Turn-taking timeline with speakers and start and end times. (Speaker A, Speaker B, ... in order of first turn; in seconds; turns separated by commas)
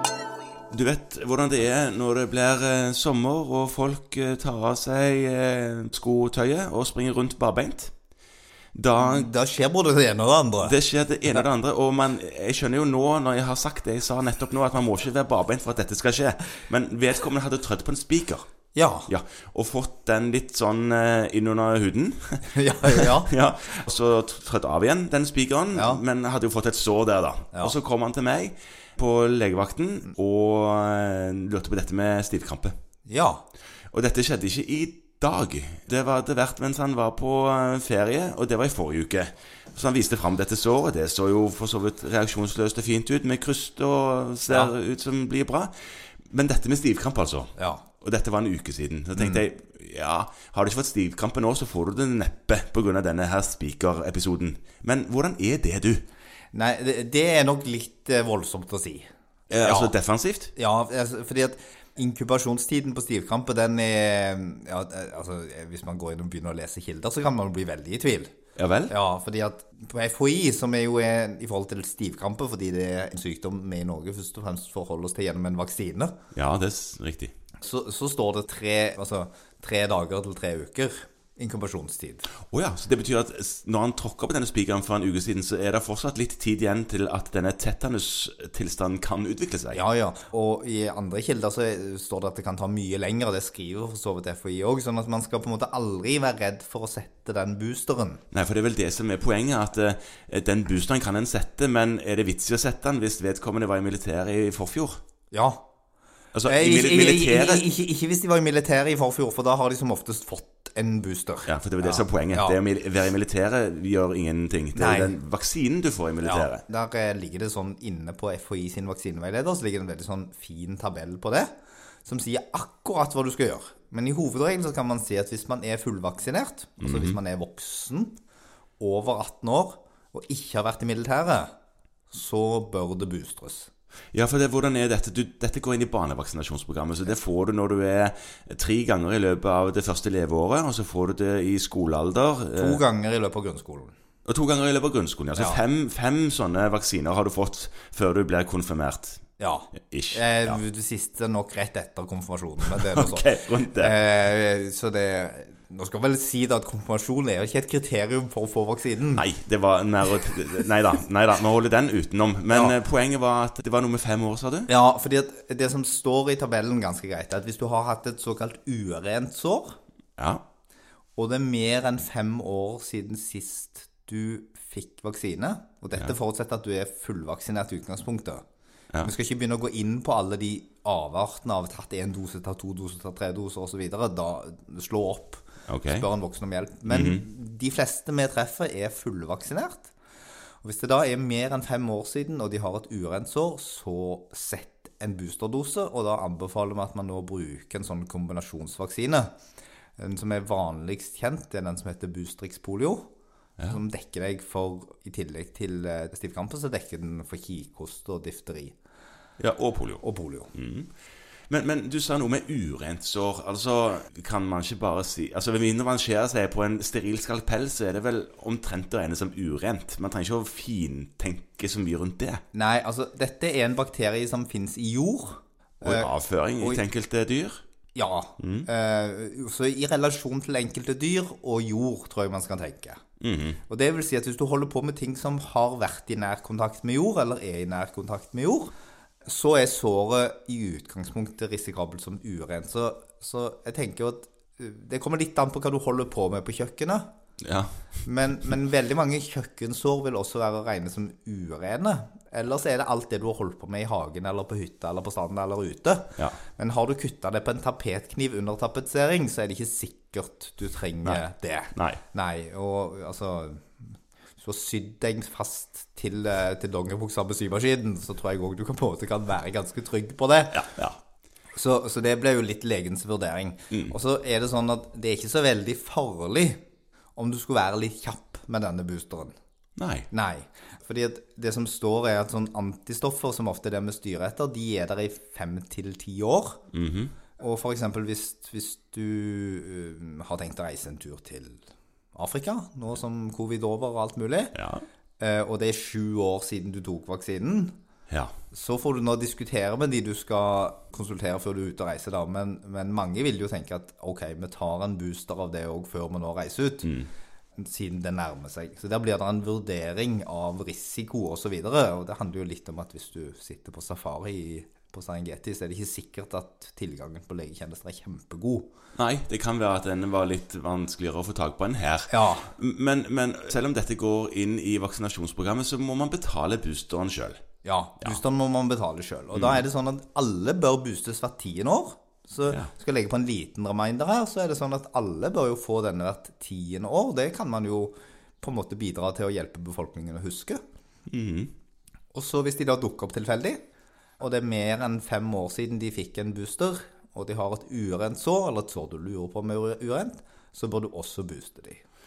Speaker A: 0.7-7.9, Speaker A: 8.7-9.3, Speaker B: 9.0-10.8, Speaker A: 10.6-18.4, Speaker B: 18.7-19.1, Speaker A: 19.1-32.8, Speaker B: 22.4-23.3, Speaker B: 25.7-26.0, Speaker B: 33.0-33.4, Speaker A: 33.9-45.7, Speaker A: 46.3-56.1, Speaker B: 47.6-47.8, Speaker B: 49.1-49.4, Speaker B: 56.5-59.1, Speaker A: 59.5-60.5, Speaker B: 59.6-59.9, Speaker B: 60.5-68.3, Speaker A: 68.6-68.9, Speaker B: 68.9-76.2, Speaker A: 76.3-77.3, Speaker B: 77.6-82.3, Speaker A: 82.5-89.8, Speaker B: 89.7-98.2, Speaker A: 98.3-105.0, Speaker B: 105.3-105.6, Speaker A: 106.3-107.6, Speaker B: 106.4-112.6, Speaker A: 111.5-116.6, Speaker B: 114.7-115.1, Speaker B: 116.2-121.5, Speaker B: 122.0-128.2, Speaker A: 126.8-127.2, Speaker B: 128.8-131.5, Speaker B: 132.1-133.7, Speaker A: 134.1-142.8, Speaker B: 142.6-143.9, Speaker A: 144.2-149.2, Speaker B: 149.4-159.2, Speaker A: 149.9-150.6, Speaker A: 152.6-154.0, Speaker A: 159.1-164.7, Speaker B: 164.7-169.8, Speaker A: 170.2-170.4, Speaker B: 171.2-178.4, Speaker B: 179.0-189.9, Speaker A: 185.7-186.0, Speaker A: 186.9-187.2, Speaker B: 190.6-199.3, Speaker B: 200.0-203.1, Speaker B: 203.7-208.8, Speaker A: 209.4-210.0, Speaker B: 210.0-210.5, Speaker A: 210.5-210.9, Speaker A: 211.5-222.4, Speaker B: 222.5-226.8, Speaker A: 225.8-227.6, Speaker B: 227.9-233.0, Speaker A: 228.4-228.7, Speaker A: 233.2-233.6, Speaker B: 233.7-238.7, Speaker B: 239.2-247.1, Speaker A: 247.4-247.7, Speaker B: 248.0-263.6, Speaker A: 261.7-262.0, Speaker B: 264.4-270.7, Speaker A: 270.5-271.0, Speaker B: 271.5-276.6, Speaker B: 277.1-279.3, Speaker A: 279.8-280.1, Speaker B: 280.1-286.6, Speaker A: 286.7-287.1, Speaker B: 287.4-294.5, Speaker A: 294.5-294.8, Speaker B: 295.2-297.8, Speaker B: 298.5-306.9, Speaker A: 306.8-307.1, Speaker B: 307.6-318.7, Speaker A: 318.9-327.4, Speaker B: 322.1-322.5, Speaker B: 327.6-340.6, Speaker A: 329.3-329.6, Speaker A: 341.1-341.5, Speaker B: 342.1-343.6, Speaker B: 344.2-351.8